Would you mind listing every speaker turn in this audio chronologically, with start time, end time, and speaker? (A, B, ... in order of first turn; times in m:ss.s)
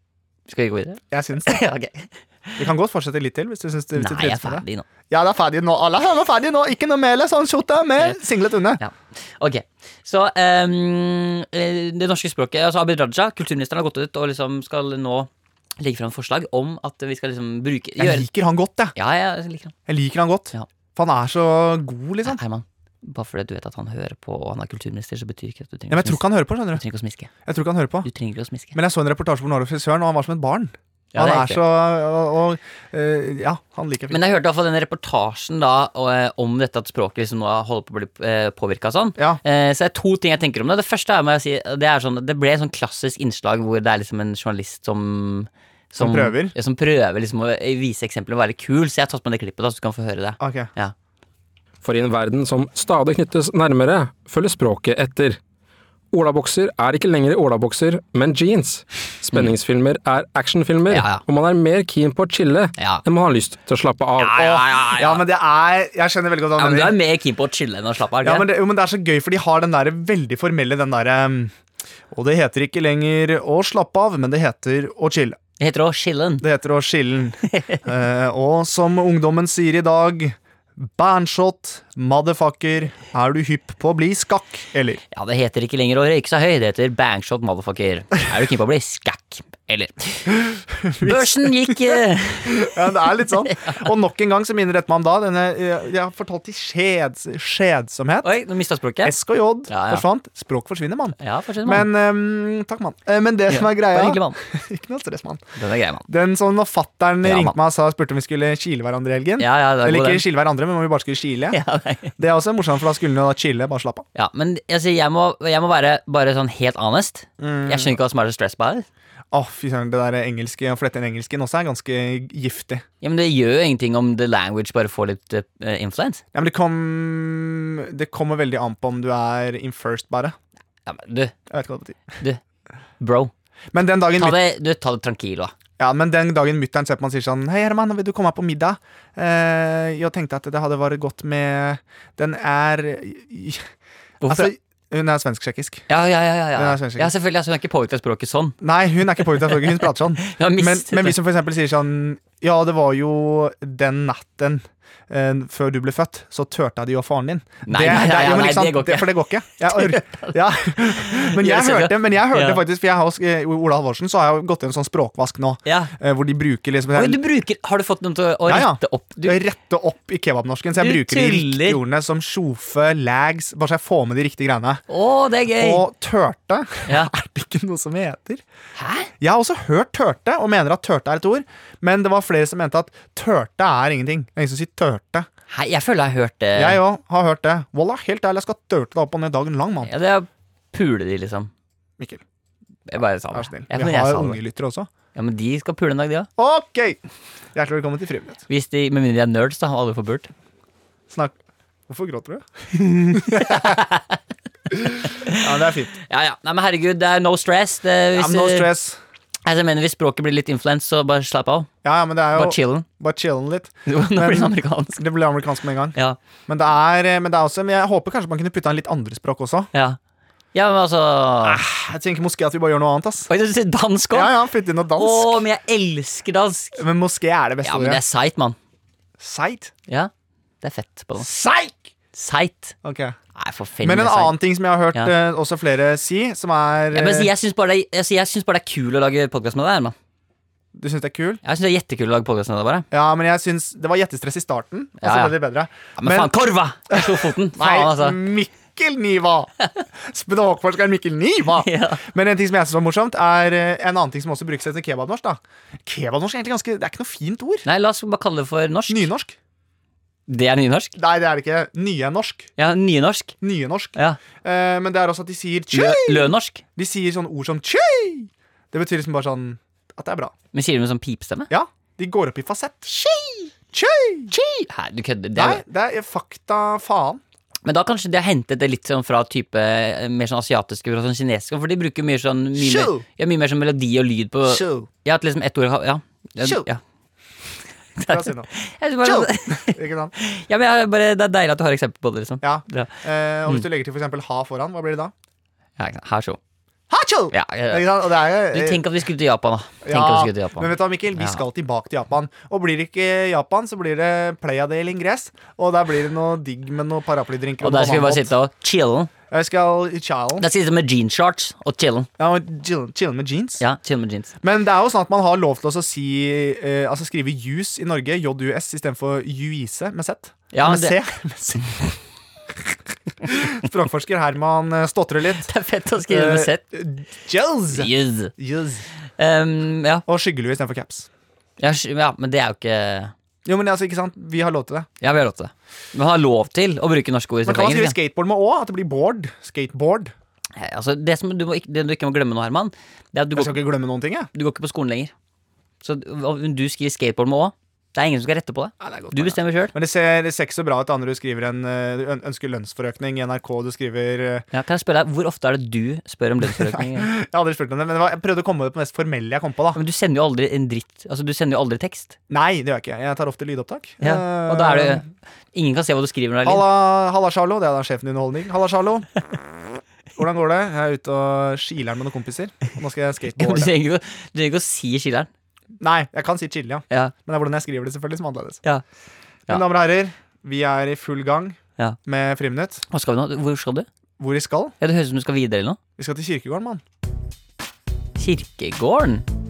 0:00.5-0:02.6 A
0:01.1-0:01.6 B
0:02.6-0:08.8 B
0:03.9-0:04.8 A
0:08.8-0:18.3 A
0:18.0-0:18.9 B
0:18.9-0:19.7 A
0:19.9-0:22.4 B
0:22.2-0:27.3 A
0:25.9-0:26.8 B
0:27.4-0:28.1 B
0:28.0-0:28.8 A
0:28.7-0:34.2 B
0:31.1-0:31.6 A
0:34.1-0:50.9 A
0:39.2-0:39.4 B
0:46.0-0:46.5 B
0:50.4-0:50.7 B
0:51.8-0:55.4 C
0:56.1-1:04.6 C
1:00.9-1:01.2 A
1:02.8-1:03.0 A
1:04.2-1:05.2 A
1:04.4-1:06.9 B
1:06.6-1:08.5 A
1:08.2-1:11.5 B
1:12.1-1:15.4 B
1:15.6-1:16.4 A
1:16.4-1:25.0 B
1:17.6-1:17.8 A
1:25.1-1:30.3 A
1:30.3-1:38.3 B
1:31.0-1:33.8 A
1:38.2-1:39.2 A
1:39.0-1:45.4 B
1:39.7-1:40.0 A
1:41.2-1:41.9 A
1:43.5-1:44.4 A
1:45.6-1:46.0 A
1:46.0-1:51.6 B
1:47.2-1:47.6 A
1:49.4-1:50.2 A
1:51.5-1:52.1 A
1:52.2-1:54.0 B
1:54.1-1:58.9 A
1:57.4-1:58.0 B
1:59.3-2:02.8 B
2:03.0-2:06.2 A
2:06.3-2:10.3 B
2:10.8-2:11.3 A
2:11.5-2:12.0 B
2:13.0-2:13.3 A
2:13.7-2:14.4 B
2:14.2-2:15.5 A
2:15.8-2:23.6 B
2:24.2-2:24.5 A
2:24.3-2:25.9 B
2:25.9-2:28.6 A
2:26.5-2:27.1 B
2:28.6-2:47.2 B
2:29.2-2:31.2 A
2:37.6-2:42.6 A
2:45.6-2:45.9 A
2:46.9-2:49.4 A
2:48.4-2:54.8 B
2:50.8-2:51.8 A
2:54.9-2:55.8 A
2:55.6-2:58.4 B
2:56.8-2:57.1 A
2:58.8-2:59.1 A
2:59.2-3:05.3 B
3:05.5-3:06.8 A
3:06.5-3:09.9 B
3:09.8-3:11.5 A
3:12.9-3:14.4 A
3:13.3-3:14.9 B
3:15.1-3:16.3 A
3:16.4-3:17.0 B
3:17.5-3:18.4 B
3:18.5-3:20.3 A
3:21.1-3:21.4 B
3:21.9-3:22.4 B
3:22.9-3:24.2 A
3:23.0-3:23.8 B
3:24.7-3:25.9 B
3:26.0-3:28.7 A
3:28.1-3:29.0 B
3:29.4-3:31.7 A
3:31.8-3:39.7 B
3:32.3-3:32.8 A
3:33.8-3:35.0 A
3:39.7-3:40.0 A
3:40.5-3:41.6 A
3:41.4-3:43.3 B
3:43.3-3:44.3 A
3:44.1-3:45.4 B
3:45.0-3:46.8 A
3:46.7-3:48.0 B
3:47.6-3:48.6 A
3:49.2-3:49.7 B
3:50.6-3:51.3 A
3:51.2-3:51.9 B
3:52.1-3:52.7 A
3:52.8-3:53.2 B
3:53.3-3:54.4 A
3:53.8-3:57.3 B
3:56.9-3:59.9 A
4:00.7-4:01.4 B
4:01.4-4:02.9 A
4:02.9-4:17.6 B
4:05.0-4:05.4 A
4:06.0-4:08.2 A
4:11.5-4:12.0 A
4:17.6-4:19.1 A
4:18.9-4:19.4 B
4:20.3-4:20.9 A
4:21.0-4:22.5 B
4:22.6-4:23.4 A
4:23.4-4:30.3 B
4:23.9-4:24.2 A
4:25.7-4:26.6 A
4:30.5-4:31.5 A
4:31.5-4:34.4 B
4:34.3-4:35.6 A
4:35.3-4:37.2 B
4:37.6-4:46.8 A
4:42.6-4:43.0 B
4:44.4-4:44.9 B
4:46.4-4:46.7 B
4:48.0-4:52.9 A
4:48.1-4:48.5 B
4:49.0-4:50.1 B
4:52.4-4:55.1 B
4:55.8-4:56.4 A
4:56.9-4:58.8 B
4:57.3-5:01.4 A
4:59.8-5:08.3 B
5:07.6-5:09.1 A
5:09.3-5:10.4 B
5:10.4-5:12.1 A
5:12.2-5:13.6 B
5:13.6-5:14.3 A
5:14.4-5:22.0 B
5:20.5-5:21.0 A
5:22.6-5:25.5 B
5:25.4-5:26.6 A
5:26.0-5:28.8 B
5:27.7-5:28.3 A
5:29.2-5:30.0 A
5:30.0-5:31.1 B
5:31.6-5:33.1 A
5:33.4-5:34.9 B
5:35.0-5:38.0 A
5:37.4-5:40.1 B
5:40.6-5:43.6 A
5:43.3-5:44.3 B
5:44.3-5:45.1 A
5:45.8-5:49.7 A
5:48.8-5:54.4 B
5:54.5-5:57.1 A
5:56.4-5:59.8 B
5:59.7-6:02.1 A
6:02.3-6:05.0 B
6:04.0-6:06.7 A
6:06.4-6:09.1 B
6:10.2-6:13.7 B
6:13.4-6:15.3 A
6:15.8-6:18.6 B
6:19.5-6:22.8 B
6:22.9-6:23.9 A
6:24.2-6:24.7 B
6:24.8-6:25.8 A
6:26.0-6:26.8 B
6:28.2-6:29.2 A